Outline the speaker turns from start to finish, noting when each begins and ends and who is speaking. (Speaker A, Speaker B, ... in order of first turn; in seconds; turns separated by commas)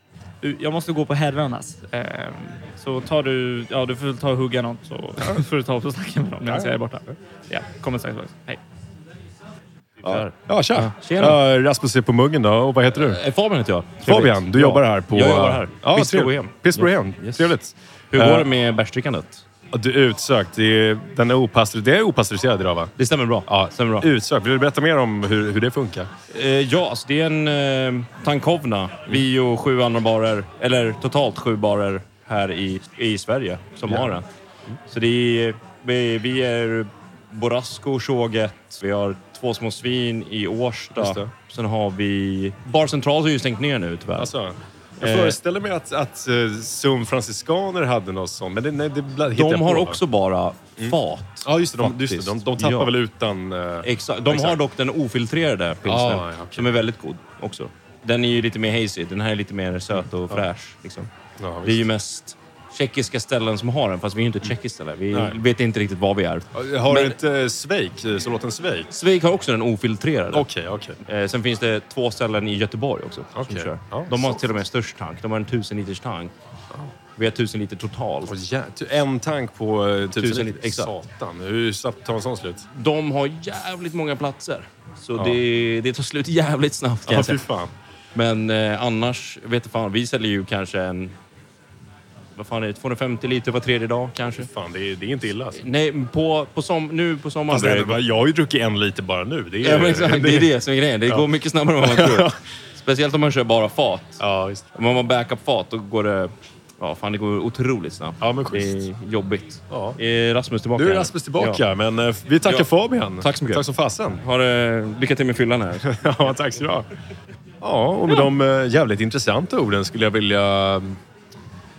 Speaker A: 0.4-8.6, Speaker B: 10.0-11.3, Speaker C: 10.0-13.2, Speaker A: 11.0-11.4, Speaker B: 12.9-17.5, Speaker C: 14.0-18.5, Speaker B: 18.1-19.4, Speaker C: 19.7-22.9, Speaker B: 23.0-24.1, Speaker C: 23.4-26.1, Speaker B: 26.3-34.3, Speaker C: 33.9-34.2, Speaker B: 34.9-44.3, Speaker C: 41.0-41.3, Speaker C: 44.1-50.0, Speaker B: 45.0-45.4, Speaker B: 49.3-52.9, Speaker C: 50.8-54.6, Speaker B: 53.8-61.1, Speaker C: 55.9-56.7, Speaker C: 59.9-60.5, Speaker C: 61.4-61.9, Speaker B: 61.6-67.2, Speaker C: 65.1-65.4, Speaker C: 66.5-68.9, Speaker B: 68.9-70.5, Speaker C: 70.3-71.0, Speaker B: 71.0-76.3, Speaker C: 73.3-74.6, Speaker B: 77.1-78.3, Speaker C: 78.2-82.7, Speaker B: 80.2-80.9, Speaker B: 82.7-87.4, Speaker C: 85.2-85.4, Speaker C: 87.0-87.7, Speaker B: 88.1-91.2, Speaker B: 92.3-94.5, Speaker C: 94.3-95.6, Speaker B: 95.6-98.0, Speaker C: 97.5-100.5, Speaker B: 99.6-104.2, Speaker C: 101.8-102.4, Speaker C: 104.2-104.7, Speaker B: 104.7-111.6, Speaker C: 108.2-108.9, Speaker C: 109.7-110.0, Speaker C: 110.7-114.2, Speaker B: 113.2-113.6, Speaker B: 114.2-115.9, Speaker C: 115.8-116.9, Speaker C: 117.6-121.0